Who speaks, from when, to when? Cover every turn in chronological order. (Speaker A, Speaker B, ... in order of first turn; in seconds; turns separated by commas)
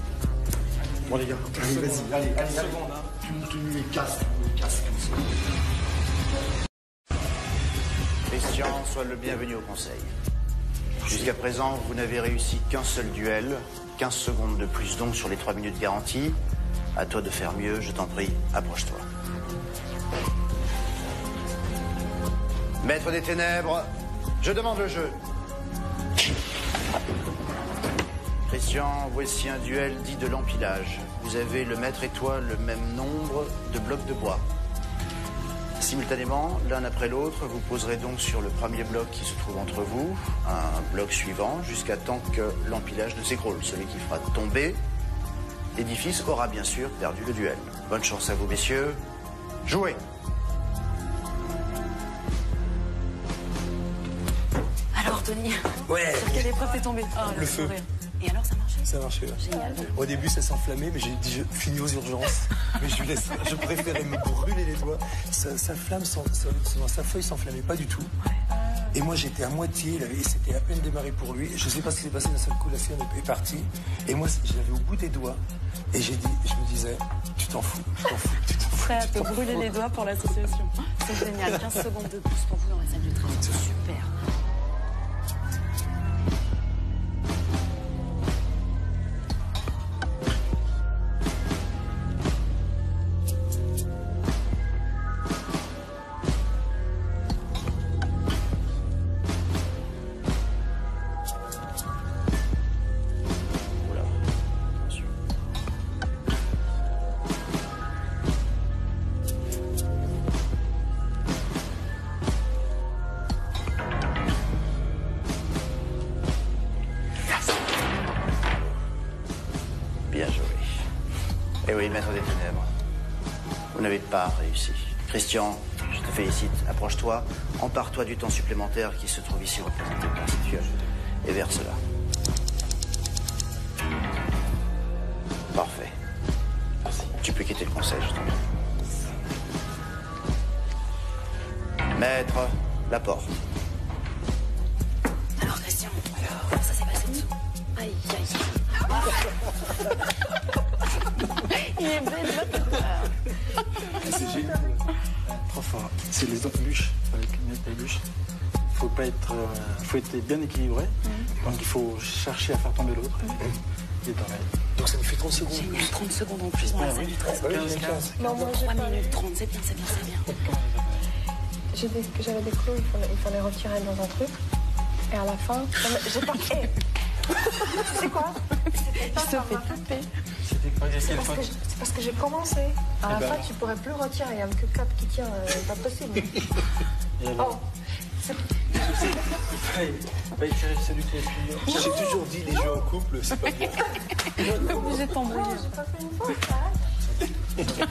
Speaker A: 1.1-2.2, Speaker B: 1.5-5.2, Speaker C: 8.3-10.1, Speaker C: 11.0-16.4, Speaker C: 16.9-19.1, Speaker C: 22.8-25.2, Speaker C: 28.5-34.5, Speaker C: 35.8-44.8, Speaker C: 45.8-49.0, Speaker C: 49.6-50.0, Speaker D: 54.9-60.2, Speaker B: 55.9-57.8, Speaker B: 58.9-68.1, Speaker B: 68.9-75.4, Speaker B: 75.9-79.8, Speaker D: 78.8-84.1, Speaker B: 81.4-81.8, Speaker C: 103.8-104.2, Speaker C: 104.7-105.1, Speaker C: 120.1-120.8, Speaker C: 121.7-122.7, Speaker C: 123.7-131.8, Speaker C: 135.5-135.9, Speaker C: 137.1-138.4, Speaker C: 141.9-143.3, Speaker D: 145.4-149.3, Speaker D: 151.4-153.2, Speaker B: 153.9-154.9, Speaker A: 155.3-158.0, Speaker A: 158.7-163.5, Speaker A: 164.1-164.5, Speaker B: 164.8-165.9, Speaker D: 165.5-167.2, Speaker A: 166.6-168.3, Speaker B: 167.2-168.6, Speaker E: 168.2-169.2, Speaker D: 168.4-170.3, Speaker A: 170.3-171.1, Speaker E: 171.7-174.3, Speaker E: 175.1-176.8, Speaker E: 177.7-180.1, Speaker D: 179.1-180.1, Speaker A: 180.4-181.5, Speaker E: 181.1-186.4, Speaker A: 183.1-183.5, Speaker A: 187.2-187.6, Speaker E: 187.4-187.6, Speaker E: 188.2-189.4, Speaker A: 188.7-191.8, Speaker B: 191.7-195.1, Speaker D: 194.3-195.7, Speaker E: 194.4-196.8